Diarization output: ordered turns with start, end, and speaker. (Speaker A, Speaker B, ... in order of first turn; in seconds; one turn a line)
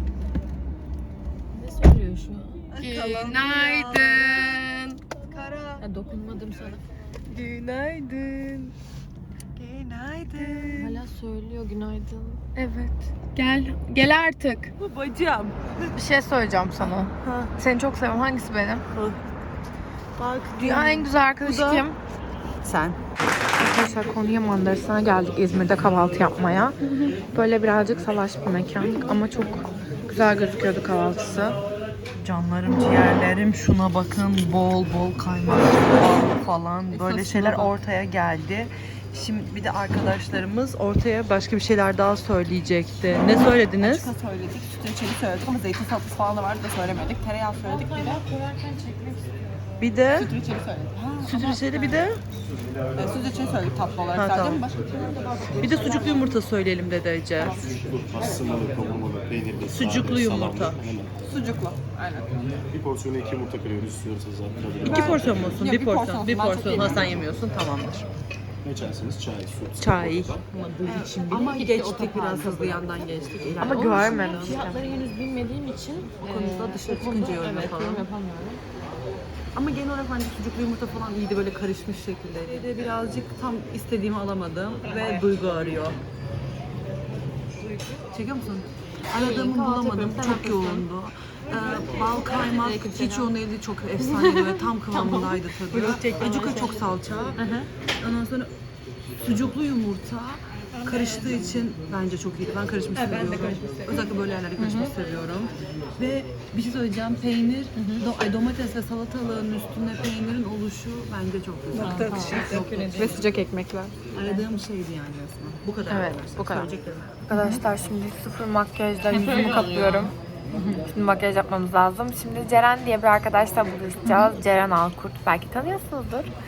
Speaker A: 1.5-2.6
Speaker B: 2.7-4.3
Speaker C: 2.7-5.0
Speaker D: 2.9-4.3
Speaker B: 5.3-5.8
Speaker A: 5.8-6.8
Speaker C: 7.3-8.7
Speaker D: 9.6-11.0
Speaker A: 10.7-12.4
Speaker C: 12.6-14.7
Speaker D: 14.8-15.9
Speaker C: 15.9-18.8
Speaker D: 16.8-17.5
Speaker D: 20.2-21.9
Speaker C: 20.6-22.0
Speaker D: 22.6-23.0
Speaker C: 23.6-26.8
Speaker C: 27.3-31.6
Speaker D: 32.2-44.1
Speaker A: 36.9-37.7
Speaker B: 43.8-48.2
Speaker A: 47.6-49.3
Speaker D: 49.8-50.3
Speaker B: 50.1-51.9
Speaker D: 51.2-52.2
Speaker B: 53.0-56.3
Speaker D: 54.1-54.7
Speaker D: 55.6-57.6
Speaker B: 57.4-58.7
Speaker E: 58.2-59.6
Speaker D: 59.7-60.9
Speaker B: 61.3-62.3
Speaker E: 63.1-64.8
Speaker D: 64.8-68.0
Speaker B: 64.8-67.2
Speaker E: 68.8-69.5
Speaker D: 69.8-74.6
Speaker A: 70.5-78.6
Speaker C: 73.6-74.9
Speaker D: 76.2-78.1
Speaker D: 79.5-86.0
Speaker A: 84.9-85.2
Speaker D: 88.1-97.4
Speaker A: 89.2-90.9
Speaker A: 92.3-93.3
Speaker A: 94.0-96.8
Speaker A: 97.4-97.7
Speaker D: 98.0-98.5
Speaker D: 99.2-113.2
Speaker A: 100.8-101.3
Speaker B: 103.0-103.8
Speaker C: 104.6-104.9
Speaker C: 107.8-108.0
Speaker B: 111.7-112.7
Speaker A: 111.8-113.2
Speaker C: 112.9-114.4
Speaker D: 114.1-117.2
Speaker C: 115.9-116.7
Speaker C: 117.3-120.1
Speaker A: 119.0-120.8
Speaker C: 120.9-126.3